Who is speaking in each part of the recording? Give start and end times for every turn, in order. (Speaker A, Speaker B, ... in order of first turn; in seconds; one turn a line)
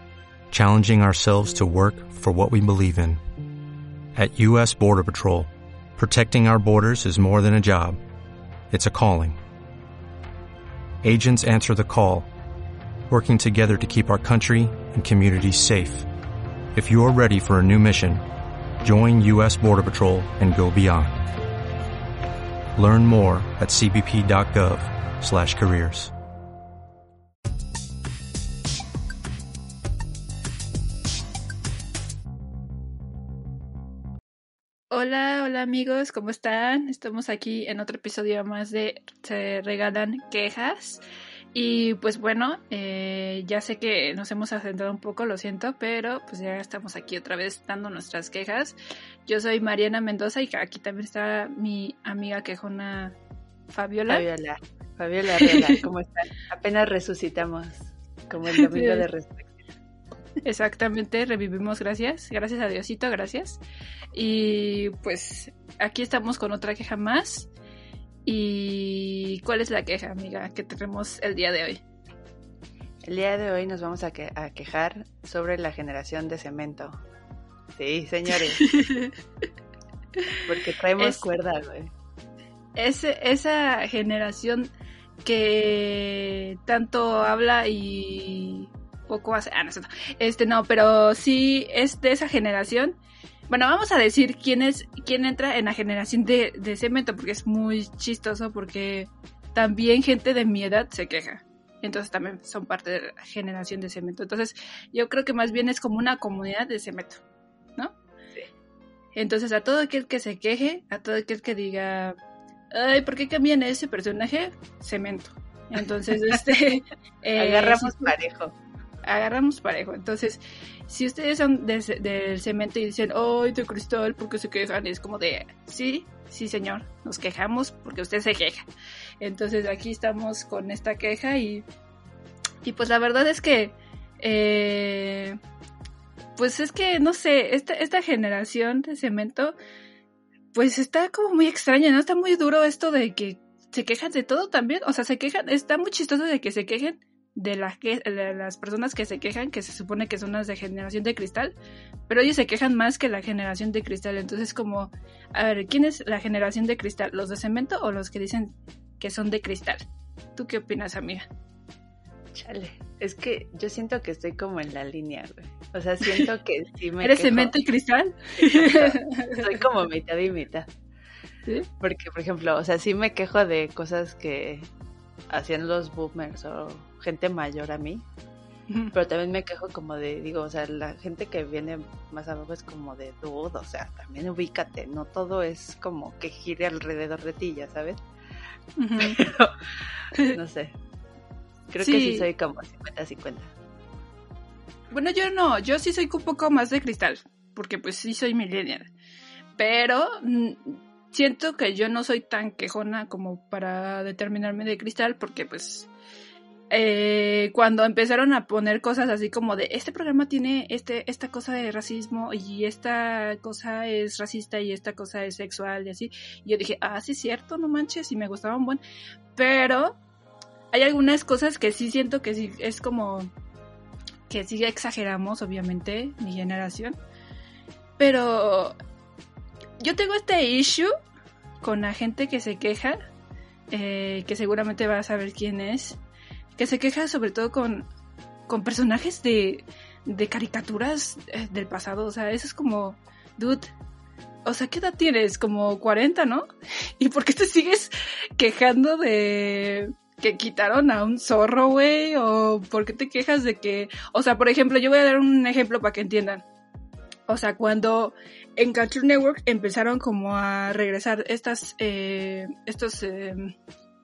Speaker A: 0.5-3.2
Speaker A: 4.2-8.0
Speaker A: 8.7-9.4
Speaker A: 11.0-12.3
Speaker A: 13.1-16.1
Speaker A: 16.7-18.2
Speaker A: 18.8-21.2
Speaker A: 22.8-26.1
Speaker B: 34.9-41.0
Speaker B: 41.5-53.2
Speaker B: 53.7-54.3
Speaker C: 54.1-59.5
Speaker B: 55.4-55.8
Speaker B: 58.5-59.1
Speaker B: 60.4-63.6
Speaker B: 64.1-67.5
Speaker B: 68.2-71.8
Speaker C: 73.0-77.0
Speaker C: 77.8-78.6
Speaker B: 78.5-79.2
Speaker C: 80.5-81.9
Speaker B: 81.0-81.2
Speaker B: 82.8-84.7
Speaker B: 85.2-93.0
Speaker B: 93.5-107.2
Speaker B: 109.2-112.2
Speaker B: 112.7-118.2
Speaker C: 117.4-118.5
Speaker B: 119.0-128.7
Speaker B: 129.2-131.7
Speaker B: 132.6-135.4
Speaker B: 136.4-139.6
Speaker B: 140.5-151.6
Speaker B: 152.1-159.8
Speaker B: 160.3-161.3
Speaker C: 162.3-167.6
Speaker B: 167.0-169.6
Speaker C: 168.4-170.7
Speaker C: 171.8-174.7
Speaker C: 175.3-178.1
Speaker B: 178.7-178.9
Speaker C: 178.9-188.0
Speaker B: 188.8-189.2
Speaker C: 189.0-189.5
Speaker C: 190.2-190.8
Speaker C: 191.7-193.5
Speaker B: 191.8-192.3
Speaker B: 194.9-198.9
Speaker B: 199.6-205.9
Speaker B: 206.7-218.8
Speaker B: 219.3-220.0
Speaker B: 220.7-223.3
Speaker B: 224.3-227.0
Speaker B: 228.0-228.8
Speaker B: 229.8-230.9
Speaker B: 231.6-233.0
Speaker B: 233.7-236.0
Speaker B: 236.6-237.9
Speaker B: 238.5-243.7
Speaker B: 244.5-246.5
Speaker B: 247.0-256.4
Speaker B: 257.3-263.6